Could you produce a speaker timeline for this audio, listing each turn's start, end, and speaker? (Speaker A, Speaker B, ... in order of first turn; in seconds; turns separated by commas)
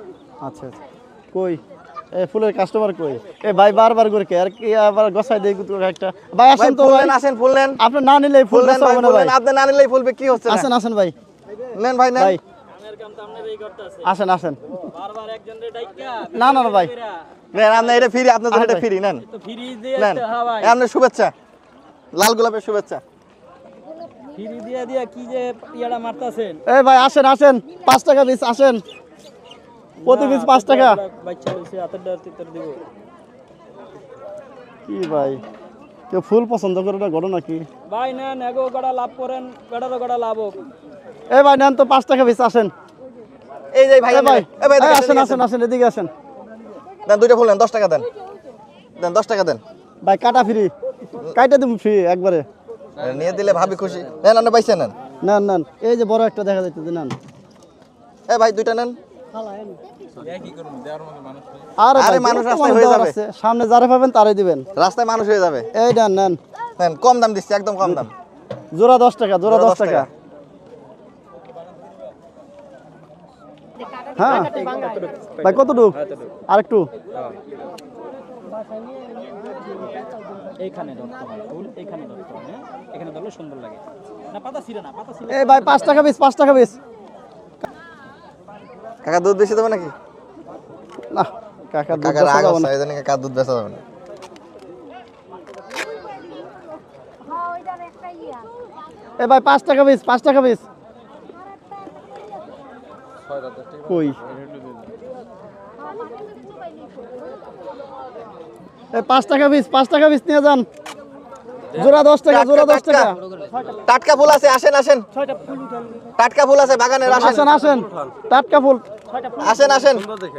Speaker A: 0.4-0.8, Speaker A: 1.3-1.6, Speaker A: 2.1-7.1, Speaker B: 6.5-7.8, Speaker A: 7.8-9.3, Speaker B: 8.5-10.7, Speaker A: 10.4-11.1, Speaker B: 11.7-12.3, Speaker C: 12.7-14.1, Speaker A: 14.0-14.6, Speaker C: 14.9-17.2, Speaker A: 16.3-16.9, Speaker B: 17.5-19.2, Speaker A: 18.5-18.8, Speaker C: 19.2-20.8, Speaker B: 20.0-21.3, Speaker B: 22.1-23.0, Speaker C: 24.3-26.6, Speaker A: 26.7-28.8, Speaker C: 30.0-32.8, Speaker A: 30.0-31.0, Speaker A: 34.9-35.4, Speaker A: 36.1-37.7, Speaker C: 37.9-40.6, Speaker A: 41.3-42.7, Speaker B: 43.7-45.4, Speaker A: 44.1-46.1, Speaker B: 47.0-48.1, Speaker B: 49.0-49.6, Speaker A: 50.0-50.7, Speaker A: 51.3-52.5, Speaker B: 53.0-54.9, Speaker A: 55.2-57.1, Speaker B: 58.3-59.0, Speaker C: 60.2-61.4, Speaker A: 61.8-64.7, Speaker B: 61.9-63.1, Speaker B: 64.8-65.7, Speaker A: 65.7-66.4, Speaker B: 66.8-68.1, Speaker A: 68.7-70.1, Speaker B: 69.4-70.1, Speaker A: 74.2-74.5, Speaker C: 74.2-76.4, Speaker A: 75.4-76.0, Speaker A: 76.5-76.9, Speaker C: 80.6-86.1, Speaker A: 85.3-86.8, Speaker B: 89.0-89.9, Speaker A: 91.1-92.7, Speaker B: 91.9-93.8, Speaker A: 99.2-100.6, Speaker A: 103.8-104.2, Speaker A: 108.9-110.7, Speaker A: 111.7-113.2, Speaker B: 112.3-113.1, Speaker B: 113.8-115.0, Speaker B: 116.2-117.5, Speaker A: 117.1-118.8, Speaker B: 119.4-120.1